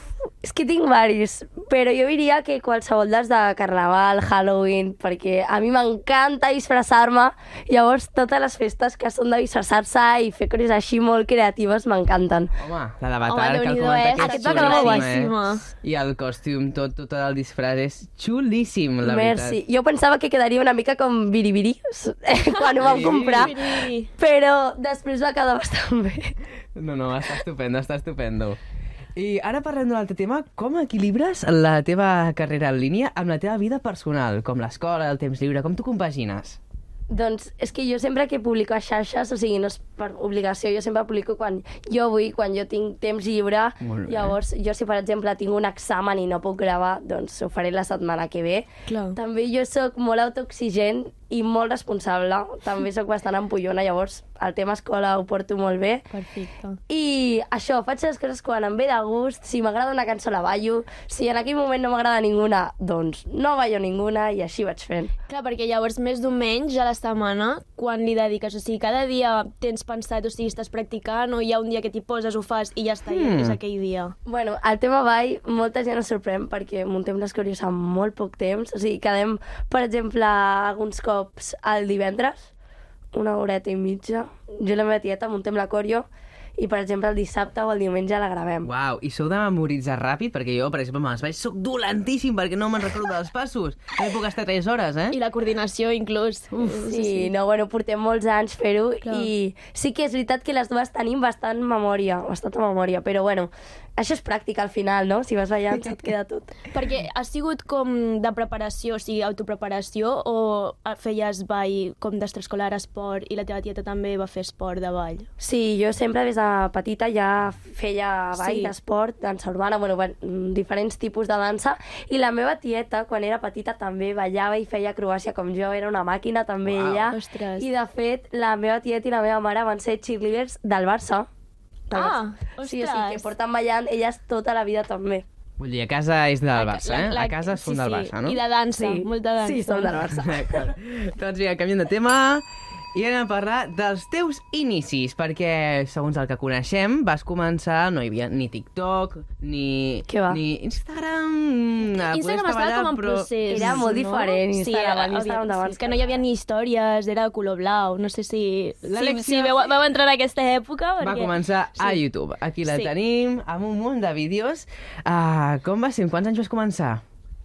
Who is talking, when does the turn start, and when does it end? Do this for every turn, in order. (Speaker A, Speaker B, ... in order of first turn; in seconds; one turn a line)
Speaker A: 0.4-12.5
Speaker B: 12.6-19.6
Speaker C: 13.2-15.7
Speaker A: 14.3-15.1
Speaker A: 19.0-26.3
Speaker C: 22.7-24.1
Speaker B: 22.8-23.5
Speaker B: 26.7-28.6
Speaker B: 29.1-36.6
Speaker A: 37.1-56.1
Speaker B: 43.8-44.4
Speaker C: 48.9-49.2
Speaker C: 56.1-56.8
Speaker A: 56.9-65.1
Speaker C: 65.3-74.1
Speaker B: 73.0-73.6
Speaker A: 74.2-82.5
Speaker A: 83.1-88.7
Speaker B: 88.6-95.2
Speaker C: 95.1-97.3
Speaker A: 96.6-106.5
Speaker C: 99.0-99.3
Speaker C: 106.7-115.3
Speaker A: 115.4-131.3
Speaker C: 118.3-118.7
Speaker B: 126.6-127.1
Speaker C: 127.1-127.7
Speaker A: 131.9-135.2
Speaker C: 131.9-133.3
Speaker B: 135.6-138.4
Speaker C: 136.5-140.0
Speaker A: 138.7-140.7
Speaker B: 140.1-153.8
Speaker A: 150.1-150.4
Speaker C: 151.9-162.0
Speaker A: 153.5-156.2
Speaker B: 158.8-159.7
Speaker B: 161.0-167.0
Speaker C: 162.6-162.9